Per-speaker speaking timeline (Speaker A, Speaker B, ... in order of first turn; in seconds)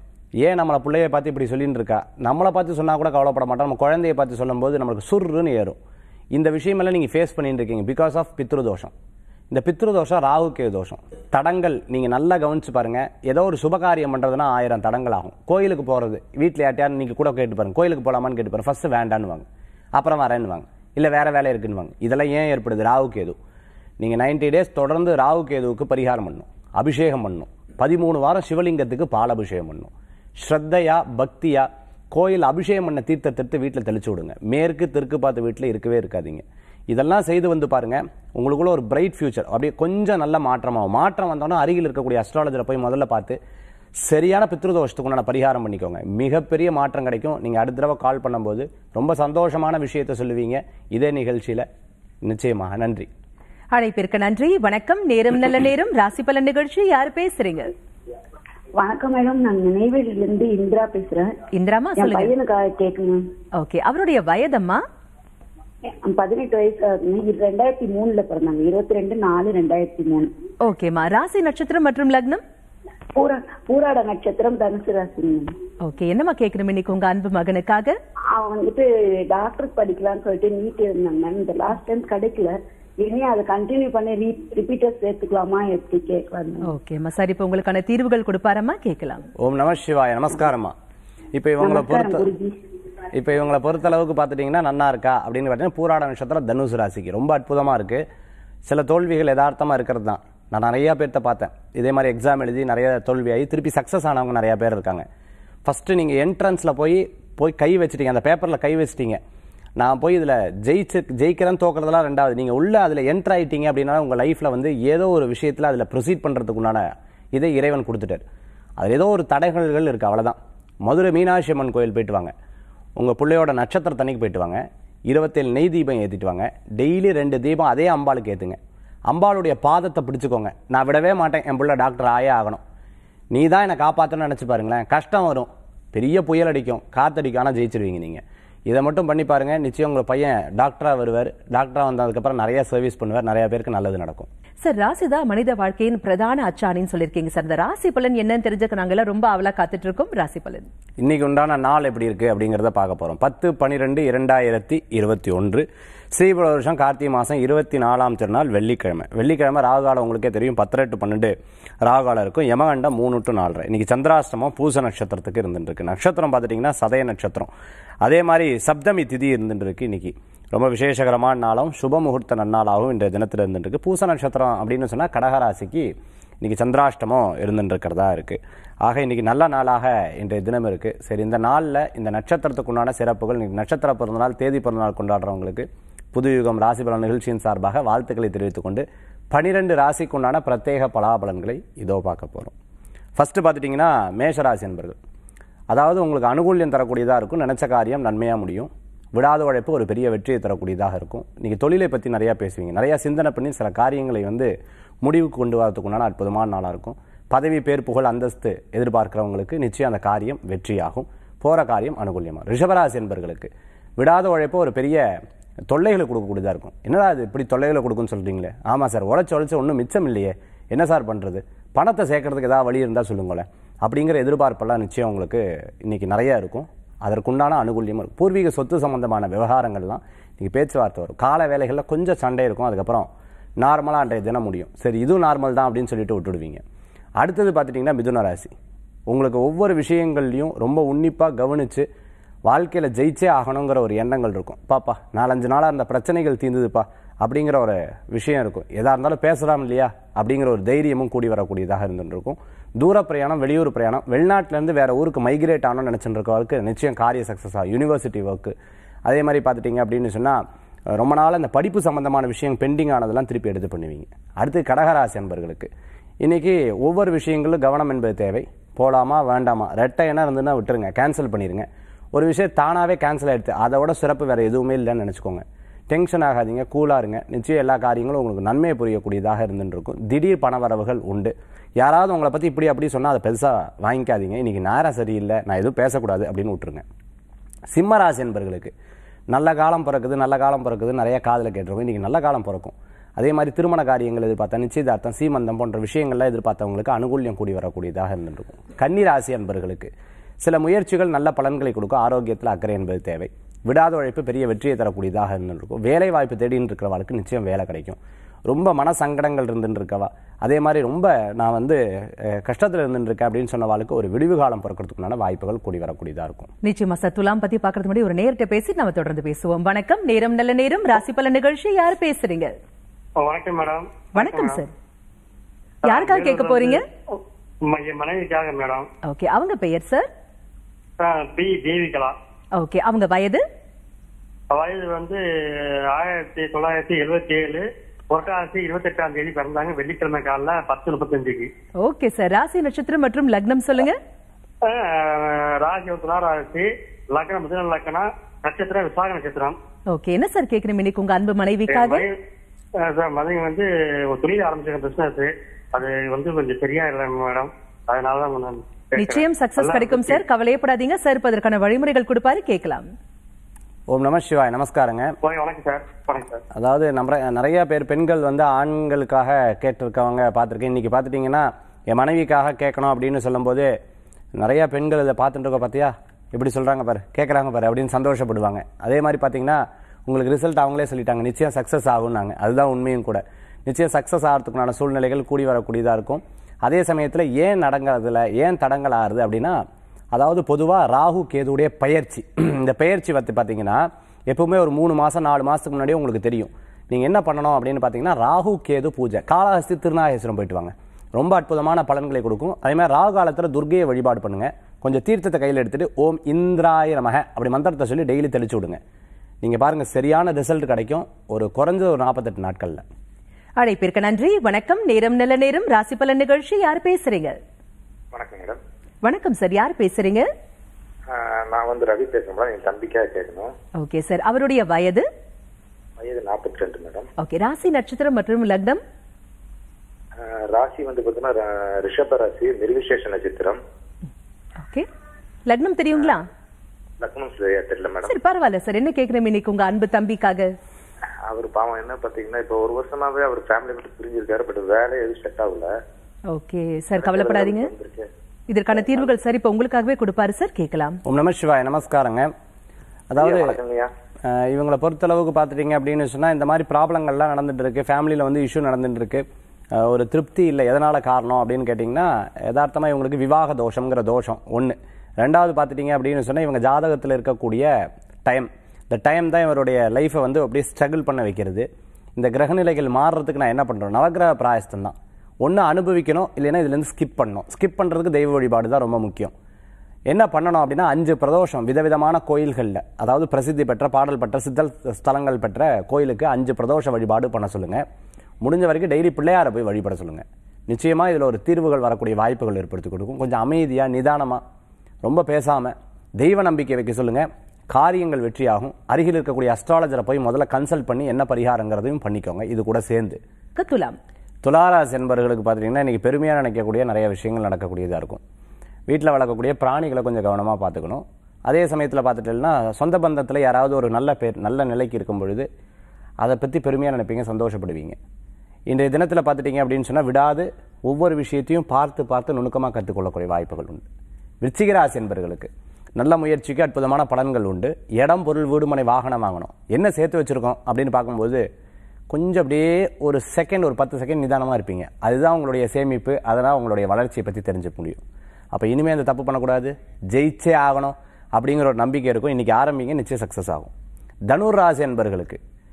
Speaker A: 0.4-5.8, 6.3-8.9, 9.5-23.4, 24.0-43.4, 44.0-51.7, 52.2-53.1, 89.4-90.8, 91.3-92.3, 93.2-98.0, 98.7-105.0, 105.7-109.2, 109.8-116.8, 117.3-118.2, 118.8-122.3, 123.0-128.6, 129.1-132.6, 133.3-144.3, 151.0-167.5, 168.0-175.9, 176.4-192.5, 193.2-195.0, 195.7-204.5, 205.0-215.0, 215.7-233.1, 233.6-236.6, 237.2-238.5, 239.1-241.9, 242.5-258.5, 259.1-260.4, 260.9-265.7, 266.2-286.8, 287.7-288.7, 289.3-299.9, 300.4-316.5, 363.9-365.1, 366.5-373.7, 374.4-389.6, 390.1-408.8, 409.4-412.8, 451.1-452.3, 453.1-453.6, 454.3-467.7, 468.2-479.3, 480.1-487.8, 488.4-494.4, 495.0-503.2, 504.4-508.2, 508.9-515.5, 516.2-518.0, 518.7-523.8, 524.4-531.4, 532.1-538.0, 538.5-543.7, 544.3-545.4
Speaker B: 53.7-57.7, 61.5-62.3, 63.6-64.8, 70.6-72.4, 75.8-77.9, 86.7-89.3, 144.6-150.7, 316.6-322.5, 324.1-324.7, 325.9-326.8, 329.1-330.1, 332.6-333.4, 341.8-344.0, 349.9-352.1, 359.0-362.9, 413.6-417.4, 419.0-420.3, 423.8-425.1, 427.2-428.8, 435.5-436.2, 438.0-440.5, 446.3-447.7, 448.5-451.0, 503.6-504.0
Speaker C: 58.8-61.3, 62.0-63.2, 66.0-70.3, 73.2-75.5, 78.3-86.7, 91.6-92.5
Speaker D: 323.2-324.6, 325.8-328.9, 331.0-332.1, 334.5-335.2, 335.9-341.5, 344.6-349.6, 351.7-352.1, 352.8-360.2, 365.2-366.4
Speaker E: 418.1-418.6, 421.1-423.5, 426.0-427.1, 430.2-433.6, 437.0-438.1, 441.3-445.7, 447.0-448.1, 448.7-449.1, 453.2-453.9